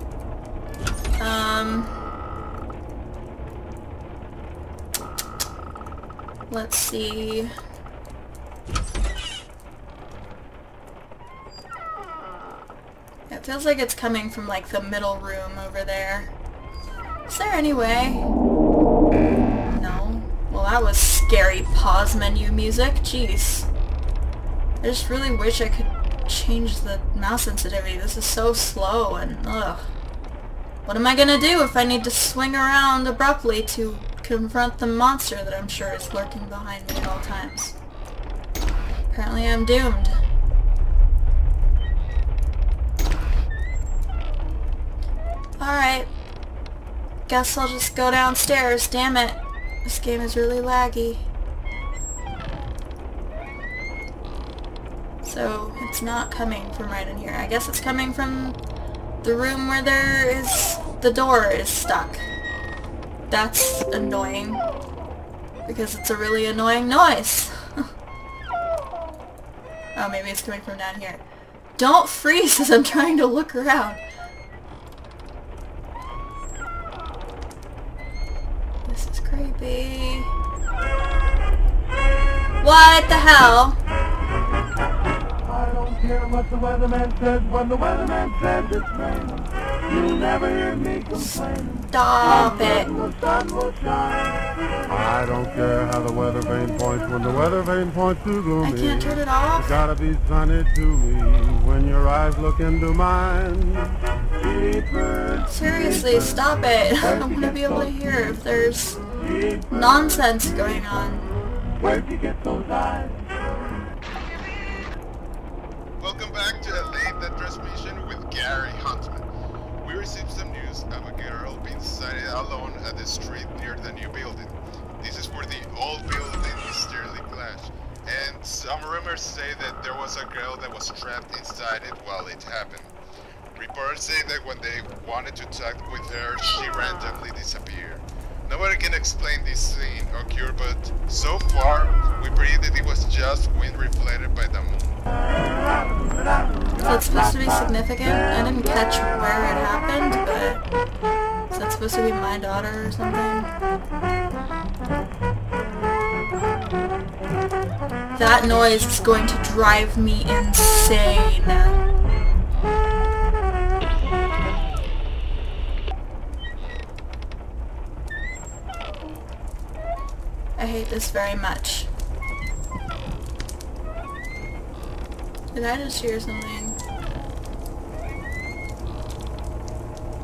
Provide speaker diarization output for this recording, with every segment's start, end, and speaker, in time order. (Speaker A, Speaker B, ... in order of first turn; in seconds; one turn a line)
Speaker A: 1.2-1.9
Speaker A: 6.5-7.5
Speaker A: 13.3-16.3
Speaker A: 17.3-18.2
Speaker A: 19.7-23.7
Speaker A: 24.8-29.8
Speaker A: 30.9-37.8
Speaker A: 39.1-40.1
Speaker A: 45.6-46.1
Speaker A: 47.3-51.2
Speaker A: 55.2-58.6
Speaker A: 59.2-62.2
Speaker A: 63.3-64.6
Speaker A: 65.7-67.5
Speaker A: 70.0-71.2
Speaker A: 71.8-74.0
Speaker A: 78.8-80.3
Speaker A: 82.6-83.8
Speaker B: 85.7-89.3
Speaker B: 90.3-90.9
Speaker A: 91.0-92.9
Speaker B: 93.5-93.9
Speaker B: 94.9-98.5
Speaker A: 98.6-99.8
Speaker B: 99.8-103.9
Speaker A: 105.4-109.0
Speaker A: 109.7-111.3
Speaker B: 112.3-112.7
Speaker C: 116.0-119.3
Speaker C: 119.8-132.9
Speaker C: 133.5-145.0
Speaker A: 146.8-150.6
Speaker A: 151.5-153.5
Speaker A: 158.1-161.8
Speaker A: 170.6-171.9
Speaker A: 175.5-176.8